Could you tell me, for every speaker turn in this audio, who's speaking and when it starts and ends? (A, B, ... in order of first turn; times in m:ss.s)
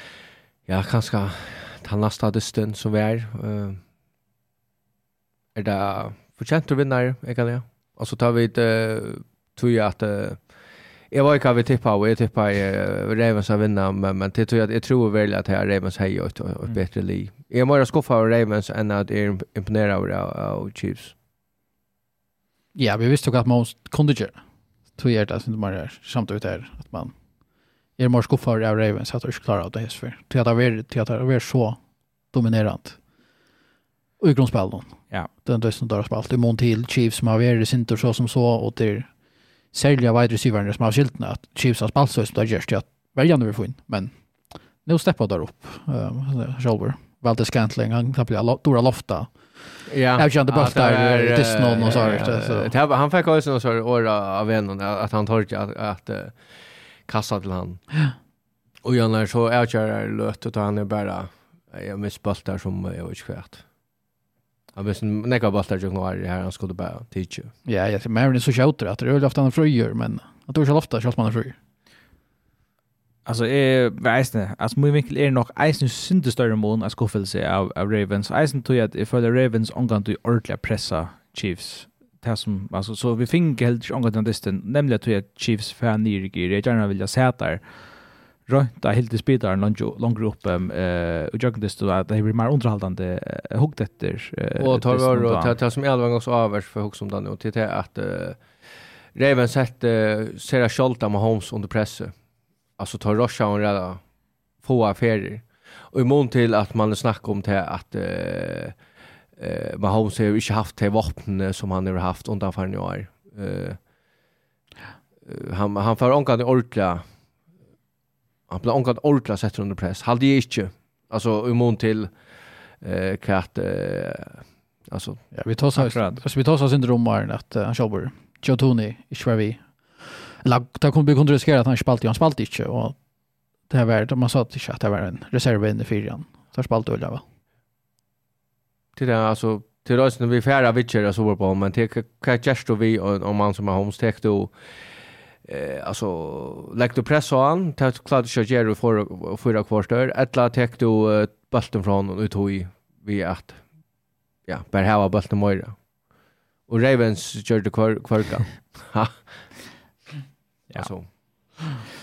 0:00.6-0:03.8 A
0:05.5-0:10.6 A
0:11.1-0:21.1 A
0:22.7-0:27.2 B
0:27.9-0:33.0 B
0:34.2-0:52.7 B
0:49.9-0:57.8 A
0:58.8-1:03.6 A
1:04.7-1:07.5 A
1:07.6-1:11.6 B
1:13.2-1:35.6 C
1:34.6-1:38.5 A
1:39.1-1:42.2 A
1:42.8-1:44.0 A
1:44.6-1:48.8 A
1:49.4-1:53.8 A
1:55.2-1:57.0 A
1:58.5-2:02.2 A
2:02.7-2:05.2 A
2:05.3-2:13.0 B
2:05.7-2:06.2 C
2:13.6-2:17.2 B
2:19.0-2:24.5 A
2:25.4-2:33.9 A
2:34.4-2:35.9 A
2:36.6-2:39.6 A
2:40.7-2:41.5 C
2:40.7-2:41.1 A